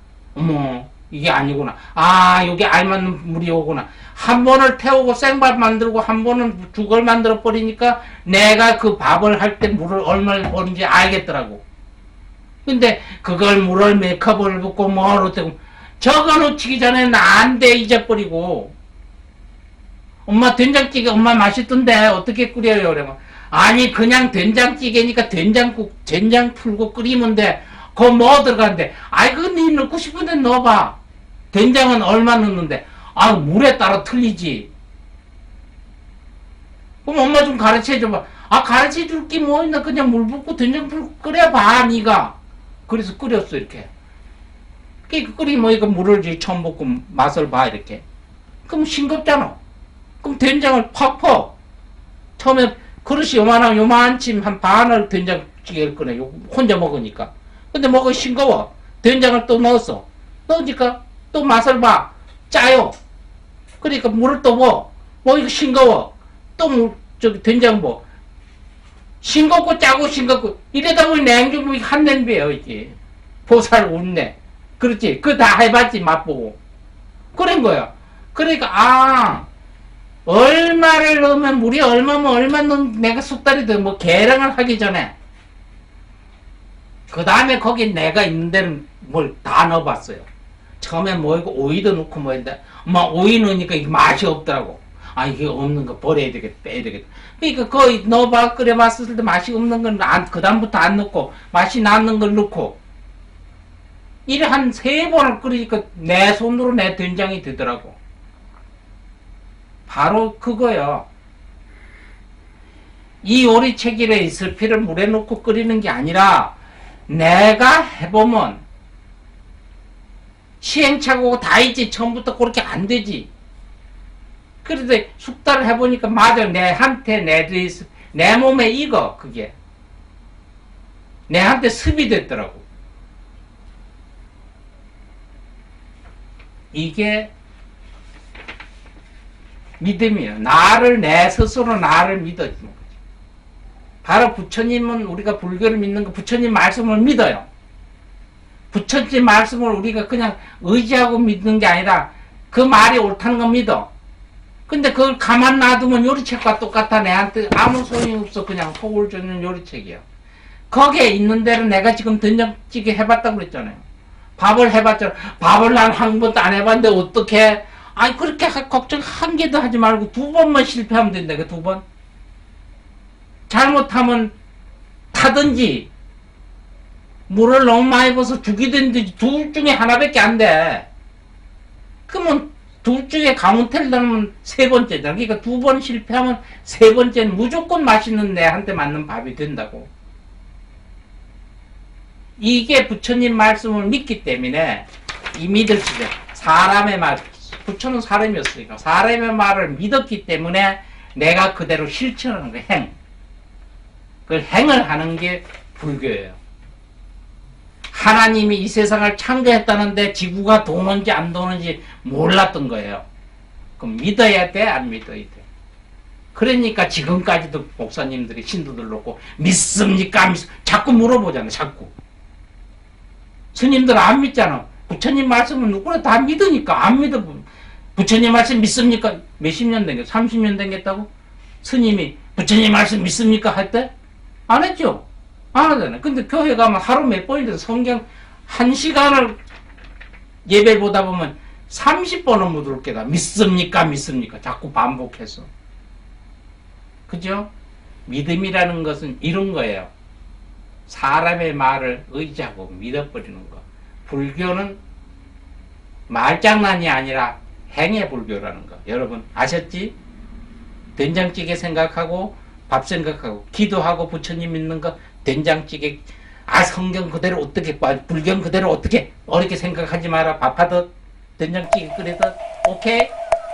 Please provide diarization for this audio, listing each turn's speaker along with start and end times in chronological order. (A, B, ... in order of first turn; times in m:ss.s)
0:00.4-0:11.6 A
0:12.6-0:18.7 A
0:20.3-0:31.0 A
0:31.5-0:34.7 A
0:37.0-0:42.4 A
0:42.9-0:43.9 A
0:45.1-0:48.0 A
0:48.7-0:49.6 A
0:50.2-0:51.5 A
0:52.4-1:03.0 A
1:03.8-1:08.0 A
1:09.2-1:13.0 A
1:13.5-1:16.6 A
1:17.3-1:19.5 A
1:20.3-1:25.1 A
1:27.1-1:30.3 A
1:30.8-1:42.8 A
1:44.3-1:48.0 A
1:49.9-1:51.1 A
1:53.2-1:56.5 A
1:57.1-1:58.6 A
2:00.6-2:03.3 A
2:04.6-2:09.5 A
2:11.3-2:12.6 A
2:16.7-2:17.3 A
2:19.8-2:23.0 A
2:24.0-2:27.5 A
2:28.7-2:33.9 A
2:34.7-2:40.0 A
2:40.7-2:43.8 A
2:44.4-2:51.8 A
2:53.5-2:54.3 A
2:55.1-2:55.9 A
2:57.3-3:00.9 A
3:02.1-3:09.9 A
3:12.4-3:22.9 A
3:24.3-3:26.4 A
3:27.9-3:33.0 A
3:33.8-3:35.5 A
3:36.4-3:41.9 A
3:43.5-3:51.1 A
3:51.6-3:53.9 A
3:54.5-3:59.4 A
4:00.5-4:05.5 A
4:07.1-4:07.5 A
4:08.1-4:09.9 A
4:10.9-4:14.8 A
4:16.1-4:20.0 A
4:21.0-4:33.1 A